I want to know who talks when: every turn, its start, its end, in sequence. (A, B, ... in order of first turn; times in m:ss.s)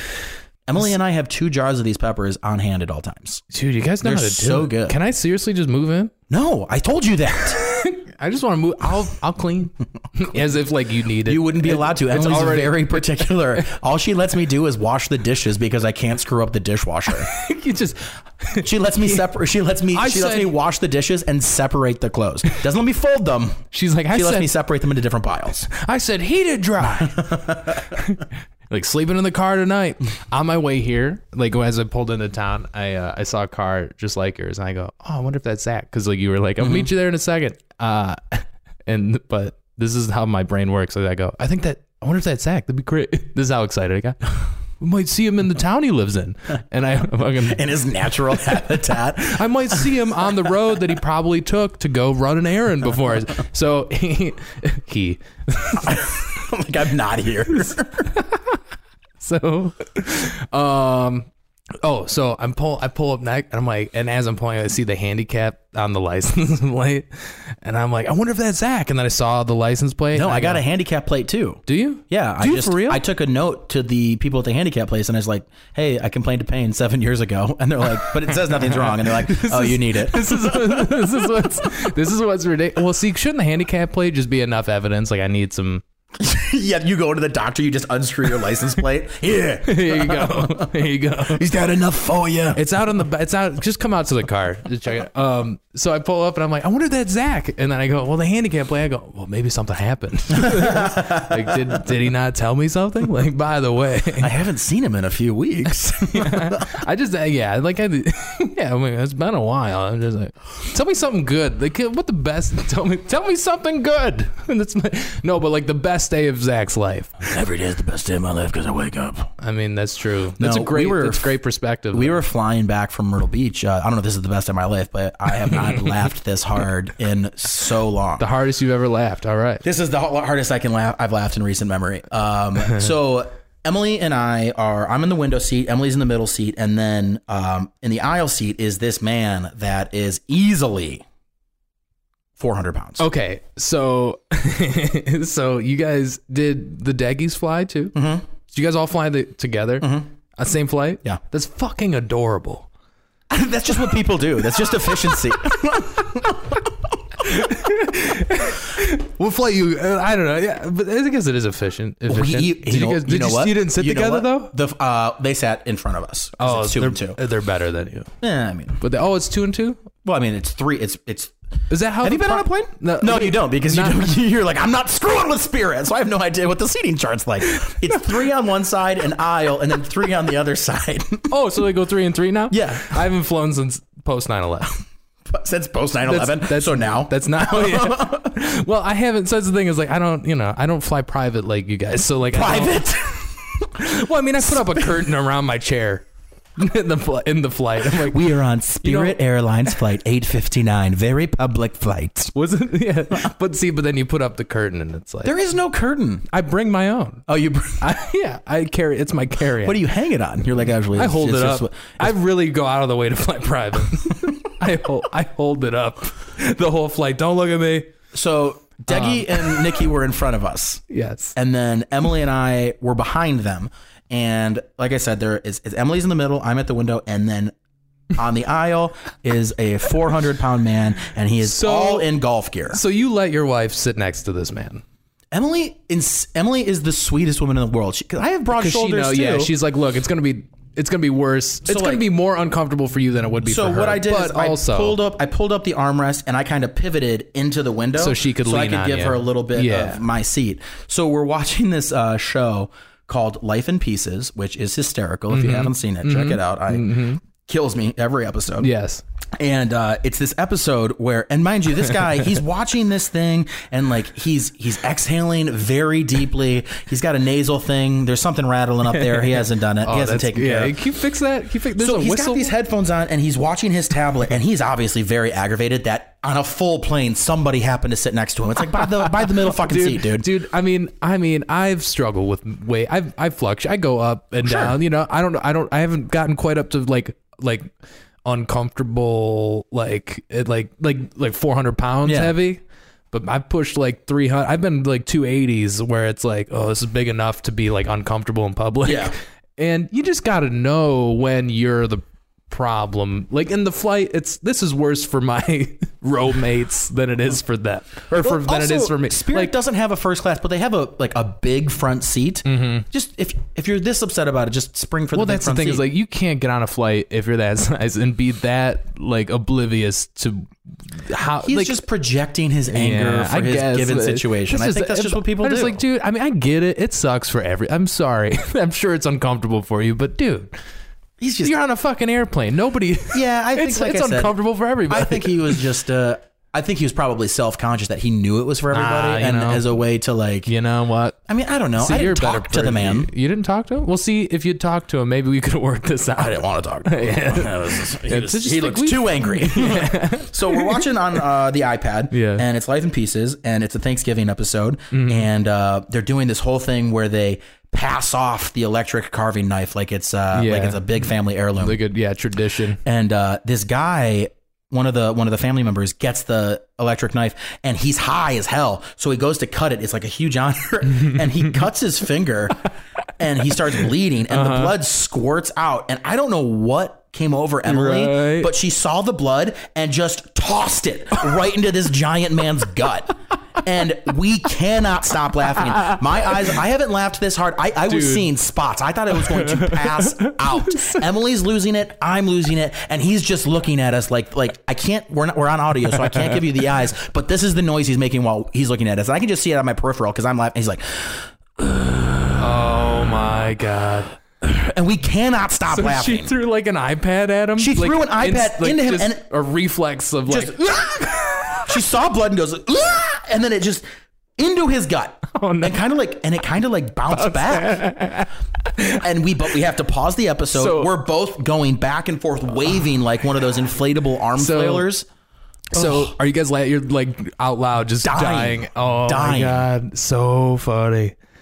0:00.7-0:03.4 A
0:03.5-0:06.1 B
0:04.0-0:05.0 A
0:06.3-0:07.6 A
0:07.5-0:13.7 B
0:11.3-0:17.3 A
0:17.1-0:19.3 B
0:18.6-0:25.7 A
0:19.9-0:20.5 B
0:23.7-0:24.5 B
0:25.7-0:47.7 B
0:26.9-0:28.0 A
0:36.6-0:36.9 A
0:47.4-0:50.5 A
0:48.3-0:56.2 B
0:55.8-0:58.1 A
0:58.1-0:58.6 B
0:59.2-1:01.3 B
1:01.8-1:10.6 B
1:10.1-1:21.7 A
1:11.7-1:13.0 B
1:18.4-1:25.8 B
1:26.2-1:32.6 A
1:29.6-1:31.4 B
1:32.6-1:44.3 B
1:40.4-1:41.6 A
1:44.2-1:46.8 A
1:46.0-1:57.3 B
1:57.2-1:59.3 A
1:59.4-2:02.2 B
2:00.4-2:01.3 A
2:01.9-2:08.2 A
2:08.2-2:09.6 B
2:09.6-2:21.0 A
2:22.4-2:23.0 A
2:23.0-2:32.7 B
2:28.0-2:28.2 A
2:29.8-2:30.1 A
2:33.3-2:37.3 A
2:37.2-2:44.5 B
2:42.1-2:47.2 A
2:46.4-2:48.1 B
2:48.2-2:48.8 A
2:48.8-2:49.8 B
2:50.0-2:51.3 A
2:51.7-2:54.1 B
2:52.0-3:01.3 A
2:57.5-2:58.0 B
3:01.3-3:04.8 B
3:02.5-3:03.1 A
3:05.3-3:08.3 A
3:06.0-3:12.9 B
3:12.3-3:13.8 A
3:13.8-3:16.1 B
3:14.4-3:15.0 A
3:16.6-3:19.2 B
3:17.8-3:22.3 A
3:22.3-3:25.4 B
3:25.2-3:26.3 A
3:26.3-3:27.3 B
3:27.3-3:27.9 A
3:27.8-3:29.8 B
3:29.6-3:32.1 A
3:30.9-3:37.9 B
3:38.1-3:40.8 A
3:38.9-3:39.8 B
3:40.9-3:41.4 B
3:41.4-3:47.5 A
3:48.1-3:52.8 A
3:51.4-3:52.1 B
3:52.7-3:54.8 B
3:55.3-3:59.5 A
3:58.5-4:05.0 B
4:01.7-4:02.0 A
4:03.4-4:18.7 A
4:08.0-4:10.0 B
4:15.3-4:17.2 B
4:18.6-4:19.0 B
4:19.4-4:30.8 A
4:28.8-4:32.5 B
4:31.8-4:40.3 A
4:38.8-4:47.7 B
4:44.4-4:44.8 A
4:48.2-5:09.5 B
4:52.0-4:52.4 A
4:58.8-4:59.1 A
5:08.2-5:15.9 A
5:12.5-5:12.9 B
5:15.1-5:21.8 B
5:21.4-5:25.8 A
5:22.7-5:30.5 B
5:31.2-5:31.6 A
5:31.4-5:35.7 B
5:33.1-5:34.4 A
5:34.9-5:40.5 A
5:38.7-5:39.8 B
5:40.5-5:41.2 B
5:41.3-5:43.1 A
5:41.8-5:50.8 B
5:46.2-6:01.8 A
5:52.1-5:52.5 B
5:54.9-5:55.3 B
6:00.3-6:00.9 B
6:01.6-6:02.8 B
6:02.8-6:12.6 A
6:13.2-6:42.7 A
6:14.3-6:14.7 B
6:17.6-6:18.5 B
6:25.7-6:26.0 B
6:27.9-6:28.3 B
6:29.2-6:31.0 B
6:36.1-6:36.4 B
6:42.4-6:44.2 B
6:44.4-6:46.3 A
6:45.7-6:51.7 B
6:47.6-6:49.2 A
6:50.3-6:53.8 A
6:54.4-6:57.9 A
6:55.3-6:55.8 B
6:57.1-6:59.0 B
6:58.9-7:05.1 A
7:00.5-7:01.0 B
7:04.4-7:04.9 B
7:05.7-7:11.2 B
7:05.7-7:06.2 A
7:08.0-7:09.7 A